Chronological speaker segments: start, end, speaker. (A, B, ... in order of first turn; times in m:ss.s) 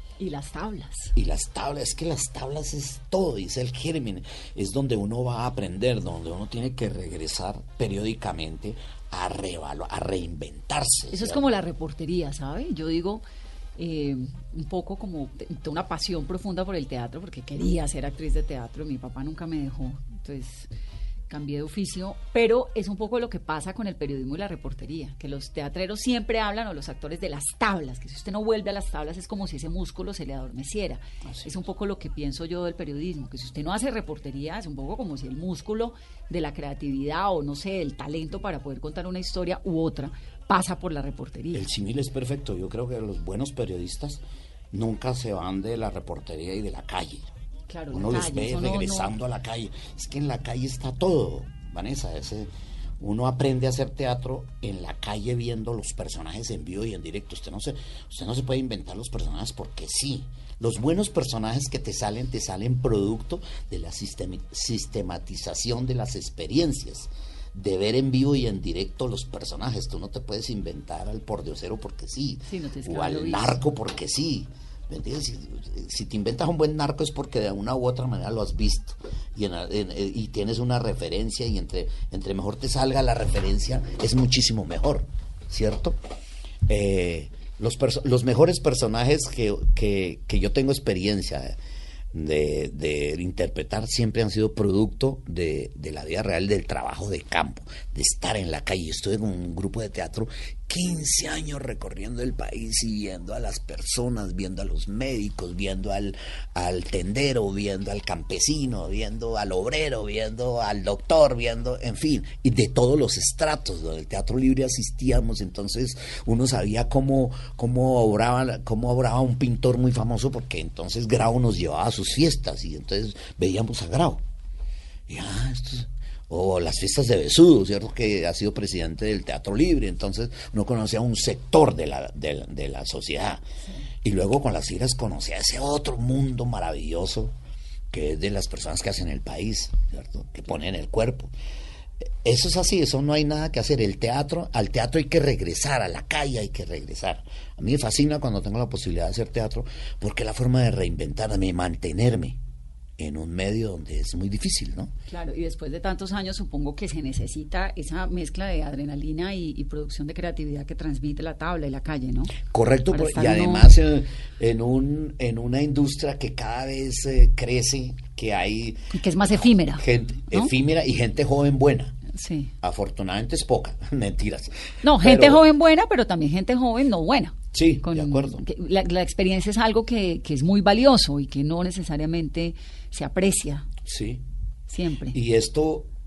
0:00.2-0:01.1 A
0:01.1-0:11.4 B
0:11.1-0:13.2 A
0:13.8-0:20.7 A
0:21.3-0:41.6 A
0:31.2-0:31.5 B
0:41.5-0:44.2 B
0:44.7-0:47.3 B
0:47.7-0:49.1 A
0:47.9-1:26.0 B
1:12.5-1:13.6 A
1:26.7-1:31.6 B
1:32.1-2:04.2 B
2:05.1-2:13.4 B
2:14.0-2:17.3 B
2:17.9-2:21.3 B
2:22.0-2:32.4 B
2:33.0-2:34.9 B
2:35.1-2:42.4 A
2:42.5-2:52.0 B
2:42.9-2:43.7 A
2:48.9-2:50.5 A
2:52.1-2:52.5 A
2:52.6-2:55.4 B
2:54.8-3:03.7 A
2:57.5-2:58.4 B
3:03.8-3:04.2 B
3:04.7-3:05.2 A
3:05.1-3:05.9 B